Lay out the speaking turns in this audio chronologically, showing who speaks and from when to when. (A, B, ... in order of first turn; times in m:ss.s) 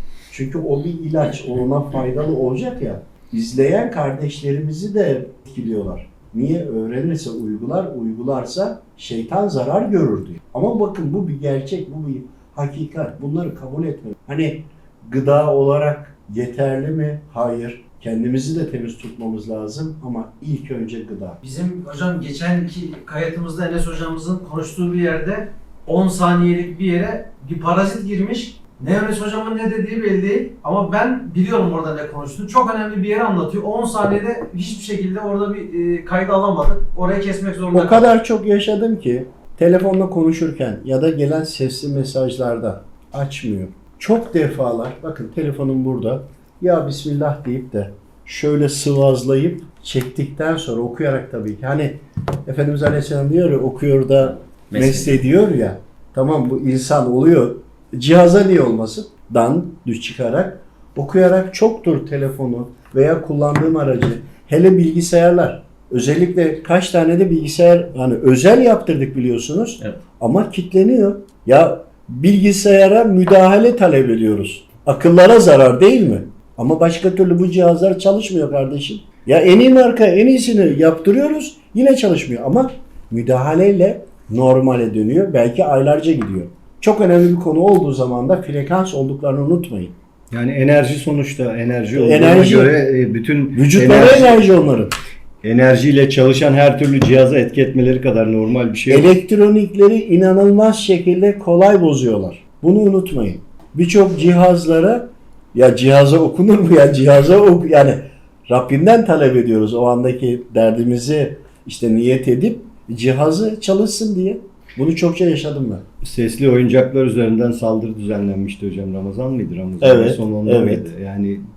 0:00.3-0:21.4 A
0:21.4-0:38.1 B
0:37.7-1:29.9 A
1:30.3-1:34.5 C
1:31.9-1:32.8 A
1:33.5-1:34.9 A
1:35.4-1:39.1 C
1:38.9-1:55.8 A
1:56.0-2:01.4 C
1:59.8-2:00.9 A